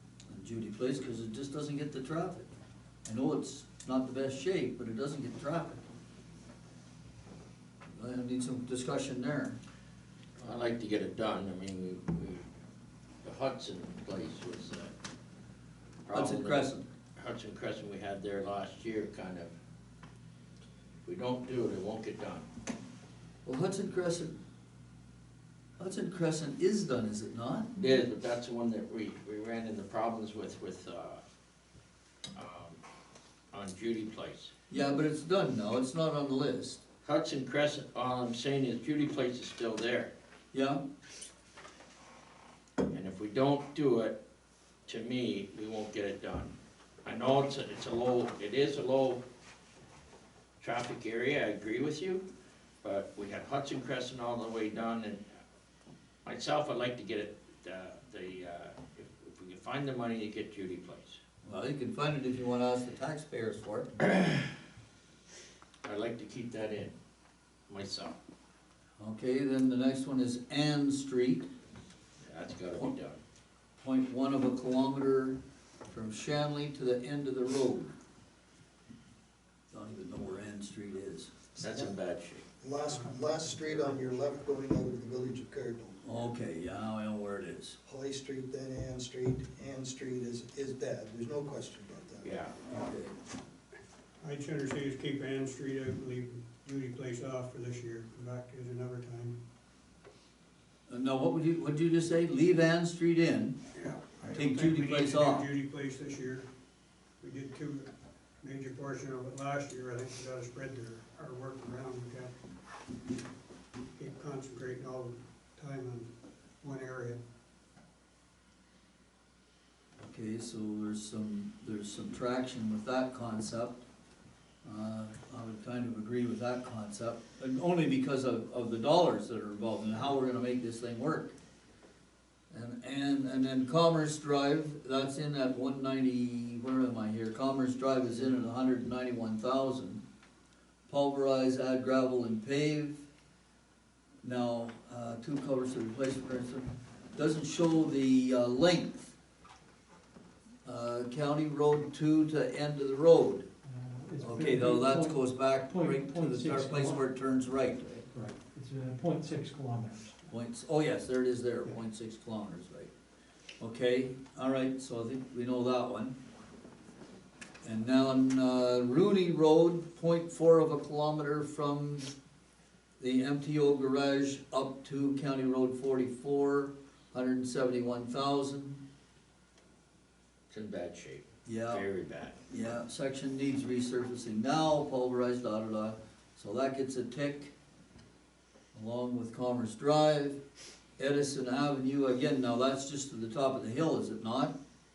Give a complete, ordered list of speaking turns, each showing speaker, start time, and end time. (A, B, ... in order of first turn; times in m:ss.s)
0:00.3-0:02.5 A
0:03.0-0:05.8 A
0:08.0-0:09.6 A
0:10.4-0:12.4 B
0:13.2-0:14.9 B
0:16.0-0:19.5 B
0:16.1-0:16.8 A
0:21.0-0:22.5 B
0:23.4-0:24.4 A
0:25.8-0:27.7 A
0:27.8-0:31.2 B
0:32.3-0:32.8 B
0:33.5-0:34.5 B
0:34.7-0:36.8 A
0:37.0-0:40.1 B
0:40.5-0:40.8 A
0:42.9-0:44.2 B
0:44.8-0:49.2 B
0:50.6-0:52.2 B
0:52.8-0:55.2 B
0:56.2-1:01.2 B
1:01.4-1:03.9 A
1:05.8-1:06.9 B
1:07.7-1:08.2 B
1:09.0-1:11.5 A
1:12.2-1:13.2 B
1:13.8-1:17.9 A
1:19.7-1:21.3 A
1:21.6-1:21.9 C
1:21.6-1:22.4 B
1:22.6-1:26.1 C
1:22.9-1:23.2 D
1:26.0-1:27.8 A
1:27.8-1:32.3 C
1:32.2-1:32.5 B
1:32.7-1:33.1 A
1:34.2-1:39.4 D
1:40.9-1:43.6 A
1:43.7-1:46.5 D
1:44.2-1:45.4 A
1:47.2-1:47.9 D
1:48.4-1:52.3 D
1:54.0-1:56.1 D
1:56.6-1:57.2 D
2:00.0-2:03.8 A
2:04.6-2:11.4 A
2:12.5-2:20.0 A
2:20.9-2:23.0 A
2:24.2-2:29.1 A
2:30.6-2:33.4 A
2:33.6-2:37.1 E
2:34.2-2:38.1 A
2:38.1-2:40.2 E
2:40.3-2:42.9 A
2:43.6-2:46.2 A
2:47.6-2:52.1 A
2:53.0-2:58.8 A
3:00.5-3:02.4 B
3:01.4-3:01.8 A
3:02.5-3:07.5 A
3:08.7-3:10.4 A
3:11.0-3:14.5 A